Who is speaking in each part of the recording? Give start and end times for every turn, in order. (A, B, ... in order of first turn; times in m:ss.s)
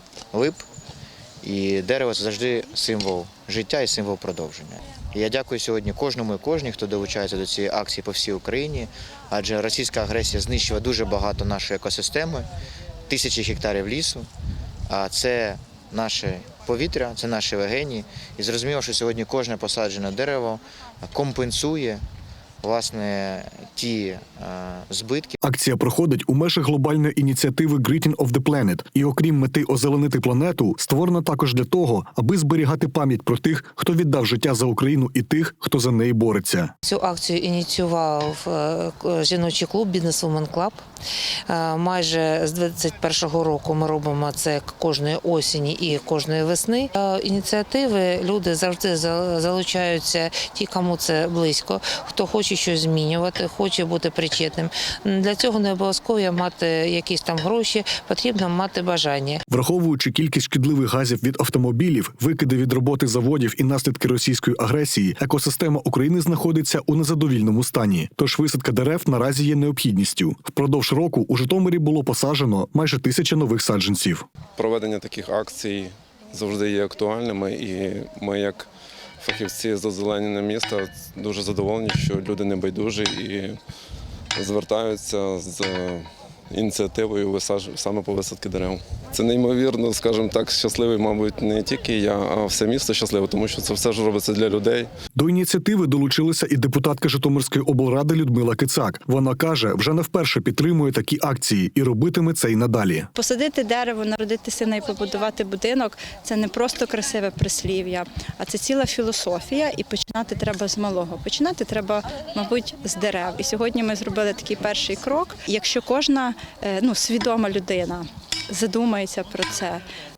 0:00.3-0:00.6 A
0:01.4-0:12.5 A
0:13.1-0:14.3 A
0:14.9-0:22.0 A
0:22.6-0:25.4 A
0:25.4-0:36.7 B
0:36.9-0:40.8 C
0:41.5-0:59.4 C
0:59.5-1:14.2 B
1:14.6-1:18.7 D
1:19.2-1:23.6 D
1:24.3-1:34.9 D
1:35.2-1:43.1 B
1:43.1-1:59.8 E